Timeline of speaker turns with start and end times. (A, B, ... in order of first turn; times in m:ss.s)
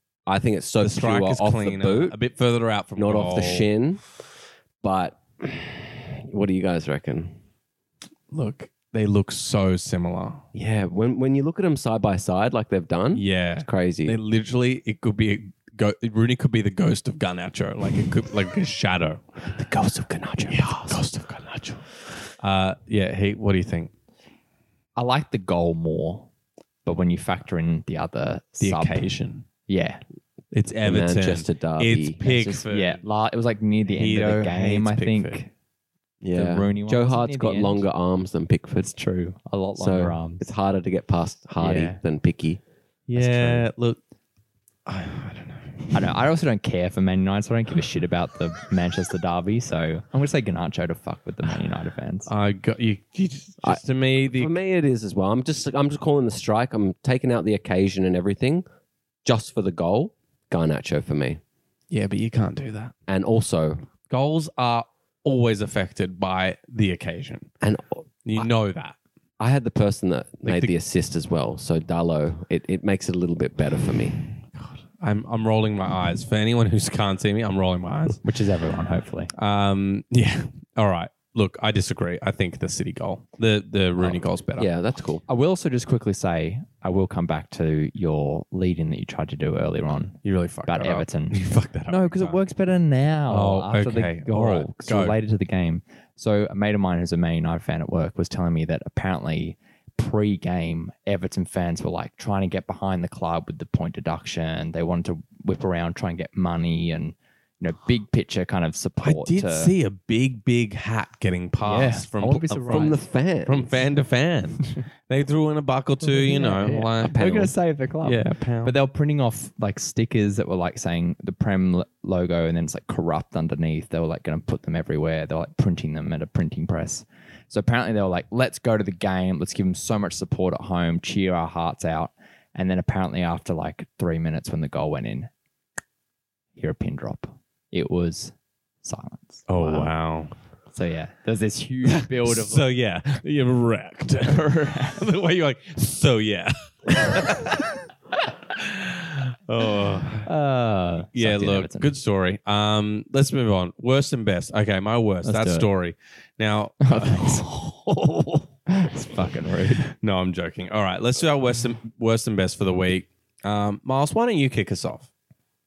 0:00.3-0:02.2 A
0:00.8-0:03.7 B
0:03.0-0:04.0 A
0:04.8-0:07.4 A
0:08.3-0:10.5 B
0:10.5-0:14.2 A
0:13.1-0:19.5 B
0:19.6-0:21.0 A
0:20.4-0:23.9 B
0:25.0-0:26.3 C
0:26.8-0:29.2 C
0:28.6-0:29.4 B
0:29.7-0:30.0 C
0:30.5-0:33.0 B
0:30.8-0:32.6 A
0:32.5-0:35.5 C
0:33.9-0:35.4 B
0:36.2-0:38.9 A
0:36.3-0:37.8 C
0:38.8-0:40.5 C
0:39.8-0:42.6 A
0:41.6-0:42.0 C
0:43.1-0:44.0 B
0:43.2-0:43.7 C
0:44.9-0:46.2 B
0:45.9-0:52.3 C
0:52.3-0:54.6 B
0:53.6-0:58.6 A
0:59.2-1:01.4 A
1:01.9-1:02.9 B
1:03.1-1:03.9 A
1:04.1-1:07.5 B
1:07.6-1:08.5 A
1:08.2-1:09.0 B
1:09.4-1:14.2 A
1:10.4-1:10.7 B
1:14.6-1:18.2 B
1:18.2-1:19.3 C
1:19.4-1:24.7 B
1:24.0-1:25.2 A
1:25.3-1:49.7 C
1:30.2-1:32.4 B
1:33.3-1:35.2 B
1:49.0-1:57.4 B
1:51.6-1:53.0 C
1:52.7-1:53.7 A
1:56.0-2:15.3 C
1:57.0-1:57.5 A
1:58.0-1:58.8 B
2:16.6-2:19.9 C
2:19.5-2:20.3 B
2:20.7-2:22.7 C
2:21.9-2:27.8 B
2:24.2-2:25.1 C
2:28.5-2:30.3 B
2:30.2-2:31.9 C
2:31.2-2:38.5 B
2:35.2-2:35.7 C
2:36.8-2:37.5 C
2:38.7-2:39.8 C
2:39.8-2:45.1 B